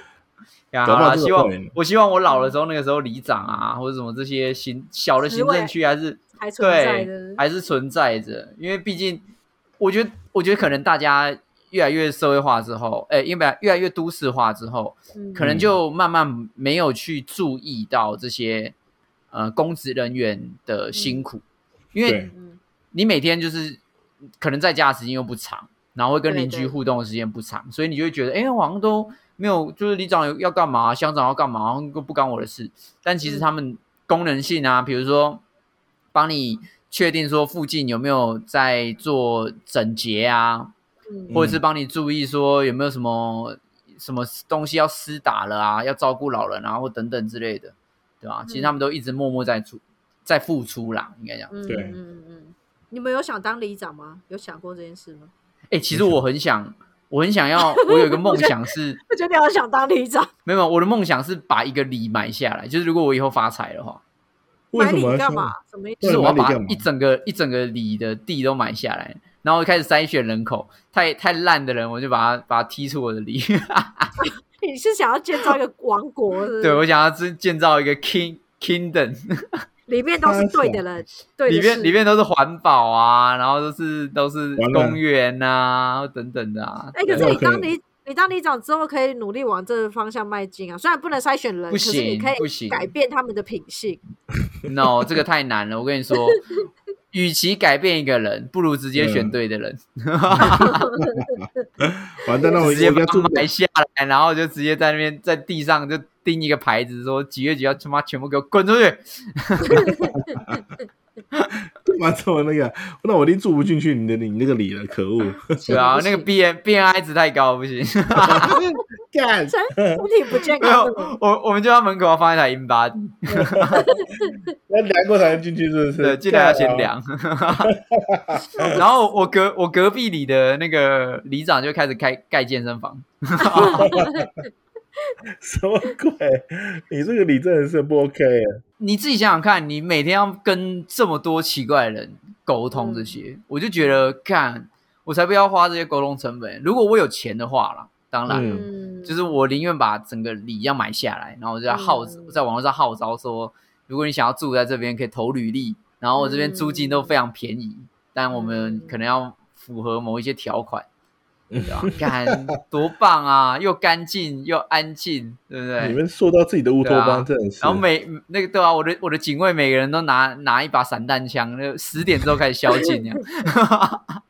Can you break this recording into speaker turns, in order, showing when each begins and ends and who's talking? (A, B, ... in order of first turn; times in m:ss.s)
0:00.7-0:09.2 A
0:00.8-0:01.7 B
0:02.3-0:02.5 C
0:05.2-0:05.7 C
0:06.4-0:07.4 C
0:09.8-0:18.8 A
0:15.2-0:15.4 C
0:15.4-0:15.7 B
0:19.3-0:21.4 A
0:21.0-0:21.2 C
0:21.9-0:22.3 A
0:22.0-0:22.3 B
0:22.3-0:22.6 C
0:22.9-0:23.8 A
0:24.4-0:35.4 A
0:26.3-0:26.8 C
0:33.2-0:33.5 C
0:36.1-0:40.7 A
0:41.1-0:41.4 C
0:41.3-0:51.5 A
0:41.3-0:41.6 B
0:48.5-0:48.8 C
0:51.5-0:55.3 C
0:51.7-0:52.0 B
0:55.7-0:59.0 A
0:55.9-0:56.2 B
0:57.6-0:58.6 C
0:59.1-1:00.3 C
1:00.5-1:04.0 A
1:04.7-1:06.9 B
1:04.8-1:06.4 C
1:06.0-1:14.1 A
1:14.2-1:16.8 C
1:16.6-1:19.6 A
1:19.9-1:22.0 C
1:20.2-1:20.8 B
1:21.5-1:27.3 A
1:24.6-1:25.0 B
1:26.9-1:34.0 C
1:27.1-1:27.7 B
1:31.7-1:32.9 A
1:34.6-1:35.1 B
1:34.7-1:36.5 A
1:37.1-1:40.9 A
1:39.0-1:39.4 B
1:40.3-1:43.5 B
1:40.5-1:41.7 C
1:42.6-1:49.9 A
1:49.6-1:50.8 C
1:50.1-1:50.6 B
1:51.8-1:55.9 B
1:55.6-1:56.3 C
1:55.7-1:58.6 A
1:58.2-2:00.0 B
1:58.4-1:58.6 C
1:59.5-2:01.1 C
2:00.6-2:03.9 A
2:03.3-2:04.5 C
2:03.5-2:03.9 B
2:04.7-2:06.9 B
2:06.0-2:07.7 A
2:07.6-2:08.8 B
2:08.6-2:08.8 C
2:08.8-2:13.9 A
2:13.5-2:14.3 C
2:13.6-2:14.3 B
2:15.4-2:18.5 B
2:18.8-2:40.9 A
2:22.7-2:23.2 C
2:28.3-2:28.7 B
2:28.3-2:29.4 C
2:31.7-2:32.4 C
2:36.2-2:37.1 C
2:38.3-2:39.0 C
2:41.5-2:42.4 B
2:41.6-2:42.0 C
2:41.6-2:46.0 A
2:45.8-2:47.8 B
2:46.8-2:54.2 A
2:52.7-2:53.0 C